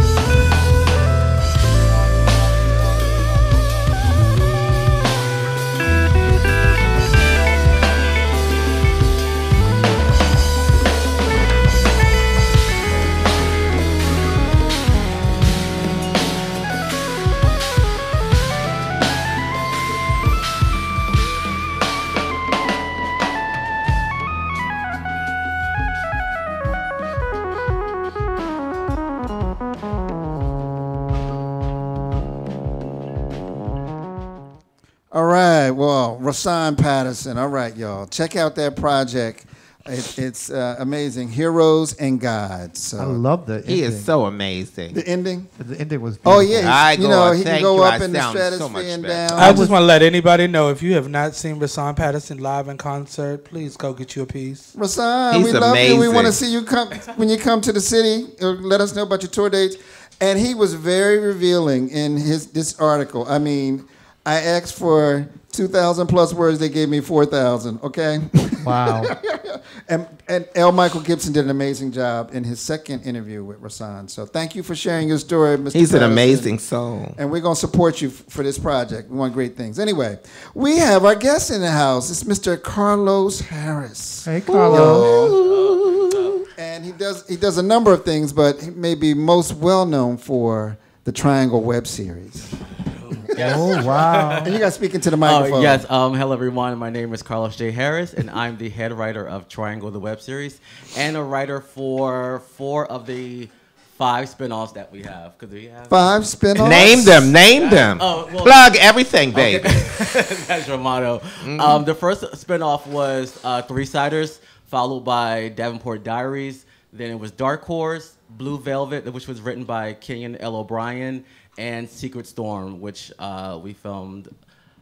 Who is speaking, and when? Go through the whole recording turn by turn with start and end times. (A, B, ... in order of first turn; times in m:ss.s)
0:35.1-0:43.2 A
0:43.0-0:44.1 B
0:43.6-0:45.0 C
0:44.9-0:45.5 A
0:45.6-0:46.8 B
0:46.2-0:49.6 A
0:46.6-0:49.6 C
0:49.4-0:54.7 D
0:49.4-0:49.7 B
0:54.7-1:16.5 A
0:55.3-0:56.4 C
1:08.6-1:09.1 B
1:15.7-1:17.2 C
1:17.2-1:25.4 A
1:24.2-1:25.4 B
1:24.5-1:26.4 E
1:26.6-1:32.5 A
1:33.0-1:34.6 E
1:33.3-1:33.7 A
1:33.3-1:34.6 B
1:34.4-1:35.8 A
1:35.2-1:46.1 E
1:45.9-1:47.3 A
1:46.6-1:49.8 C
1:46.8-1:48.7 E
1:49.3-2:04.3 E
1:51.4-1:51.8 C